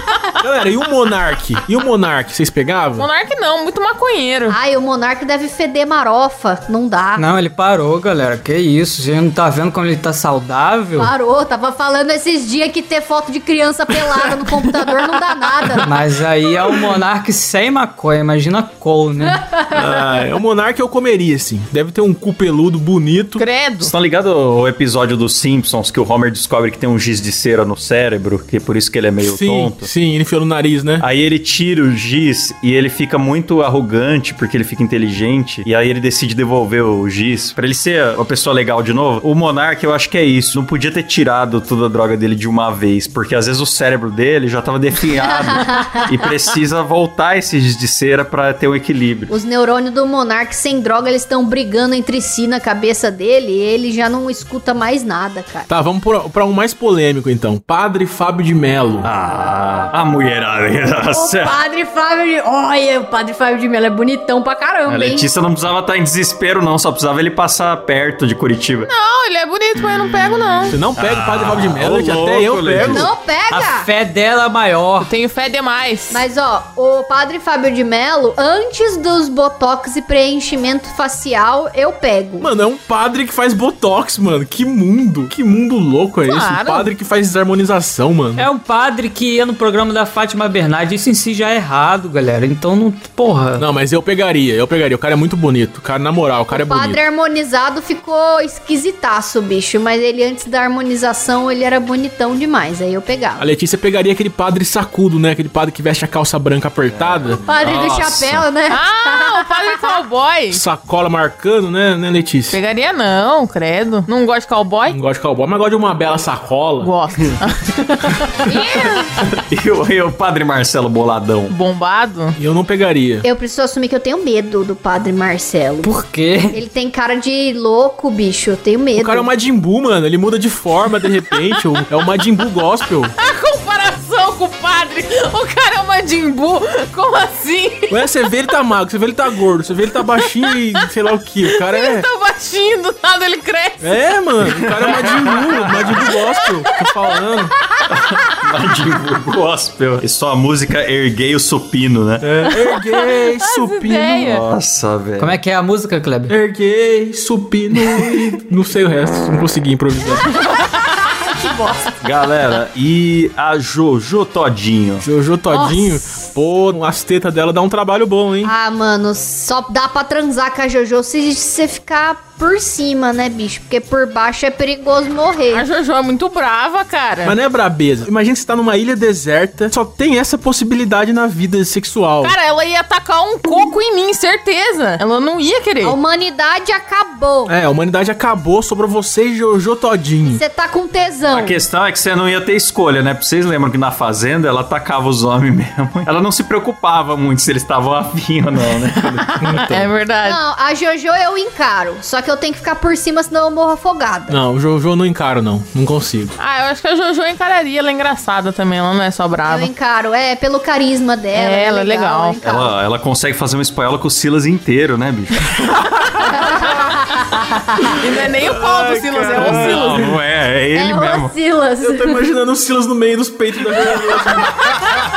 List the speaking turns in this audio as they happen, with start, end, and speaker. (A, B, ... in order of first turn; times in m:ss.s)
0:00.4-0:03.1 A
0:03.0-0:04.6 B
0:04.5-0:07.2 C
0:07.2-0:11.1 D
0:11.0-0:16.0 C
0:15.8-0:19.4 D
0:19.4-0:19.7 C
0:19.7-0:23.4 A
0:23.4-0:23.9 B
0:23.8-0:29.9 E
0:29.2-0:31.1 A
0:31.0-0:49.3 E
0:45.3-0:46.0 C
0:49.3-0:55.7 C
0:55.7-0:59.1 A
0:59.0-1:01.6 E
1:01.1-1:05.2 C
1:04.9-1:08.9 E
1:08.9-1:10.8 B
1:10.7-1:13.1 A
1:11.0-1:13.1 E
1:12.9-1:13.9 C
1:13.5-1:15.1 D
1:15.0-1:16.2 B
1:16.1-1:22.5 C
1:22.4-1:28.5 A
1:26.3-1:26.9 B
1:28.4-1:33.6 D
1:33.6-1:37.0 A
1:36.5-1:43.5 C
1:43.4-1:47.4 A
1:46.8-1:48.4 E
1:47.4-1:49.6 C
1:48.7-1:50.6 B
1:50.5-1:52.6 A
1:52.5-1:55.0 B
1:54.9-1:56.9 A
1:56.8-1:59.0 B
1:58.5-1:59.1 C
1:59.4-2:01.6 E
2:01.5-2:02.4 B
2:02.4-2:03.3 A
2:03.2-2:05.9 C
2:05.8-2:06.6 D
2:06.5-2:09.3 C
2:09.0-2:13.1 A
2:13.2-2:18.0 B
2:17.9-2:22.1 A
2:21.5-2:24.0 B
2:23.8-2:27.5 A
2:24.4-2:25.9 E
2:27.9-2:32.2 E
2:32.2-2:34.3 A
2:32.7-2:34.4 B
2:34.2-2:35.4 E
2:35.2-2:36.3 D
2:36.3-2:40.3 A
2:41.1-2:41.9 C
2:42.0-2:45.1 E
2:45.0-2:48.5 A
2:45.5-2:46.0 C
2:48.4-2:55.6 C
2:55.5-2:57.4 B
2:57.2-3:02.3 A
3:02.2-3:06.0 B
3:05.8-3:07.5 C
3:07.5-3:10.4 A
3:10.2-3:11.6 C
3:11.3-3:19.3 E
3:19.2-3:20.4 B
3:19.4-3:19.9 A
3:20.2-3:24.4 C
3:24.3-3:26.4 A
3:26.4-3:29.7 B
3:29.5-3:32.7 C
3:31.3-3:32.4 B
3:32.4-3:35.6 E
3:36.3-3:38.0 C
3:38.0-3:40.0 B
3:38.4-3:40.2 A
3:39.4-3:41.3 E
3:40.8-3:42.2 C
3:41.8-3:44.6 A